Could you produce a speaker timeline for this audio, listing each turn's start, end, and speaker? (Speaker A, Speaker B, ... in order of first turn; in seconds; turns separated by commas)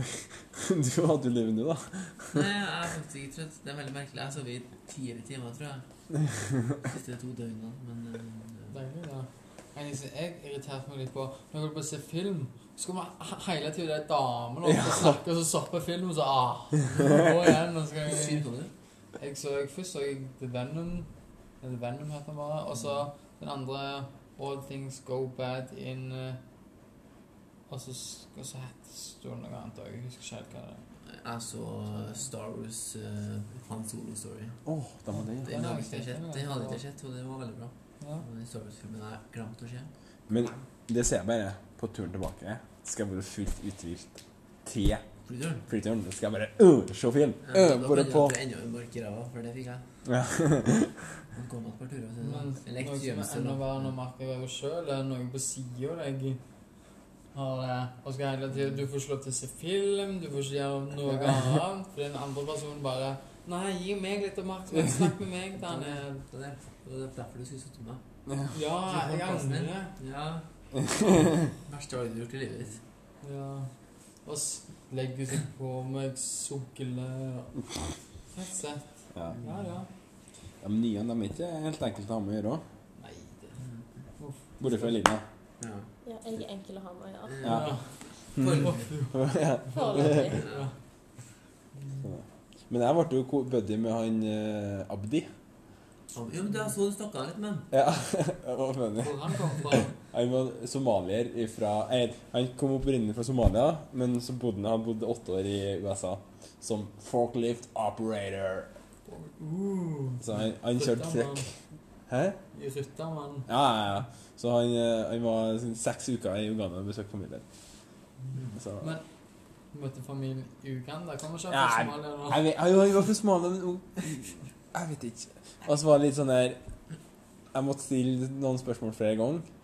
Speaker A: 0.5-2.5, Speaker B: 2.3-5.8, Speaker B: 6.8-8.8, Speaker C: 8.7-18.4, Speaker A: 14.6-15.2, Speaker B: 18.0-18.7, Speaker C: 19.2-21.1, Speaker C: 21.6-26.4, Speaker C: 27.7-30.8, Speaker B: 31.1-34.6, Speaker A: 34.6-35.6, Speaker B: 35.4-39.9, Speaker C: 35.4-36.8, Speaker A: 40.3-45.0, Speaker B: 45.2-45.6, Speaker A: 45.7-48.3, Speaker B: 47.5-49.8, Speaker A: 50.0-50.9, Speaker B: 51.3-53.9, Speaker C: 52.2-56.4, Speaker C: 57.3-66.2, Speaker B: 65.5-68.0, Speaker A: 68.3-68.6, Speaker C: 68.5-69.9, Speaker B: 68.8-70.4, Speaker B: 71.6-72.8, Speaker C: 73.2-77.5, Speaker C: 78.3-79.9, Speaker B: 79.3-79.7, Speaker A: 80.6-82.6, Speaker C: 83.0-83.6, Speaker C: 84.2-85.0, Speaker A: 84.6-85.2, Speaker B: 85.6-85.9, Speaker D: 86.0-87.3, Speaker B: 87.2-88.9, Speaker A: 87.4-87.7, Speaker C: 87.4-90.7, Speaker A: 88.4-90.4, Speaker D: 89.7-90.4, Speaker B: 90.3-90.7, Speaker A: 92.0-95.2, Speaker B: 96.1-97.7, Speaker A: 97.7-108.7, Speaker C: 99.0-99.9, Speaker C: 109.0-111.5, Speaker A: 110.2-111.5, Speaker A: 112.1-112.4, Speaker C: 112.5-113.5, Speaker A: 113.5-117.4, Speaker A: 118.6-119.0, Speaker C: 119.7-122.4, Speaker A: 121.5-126.6, Speaker A: 127.5-129.4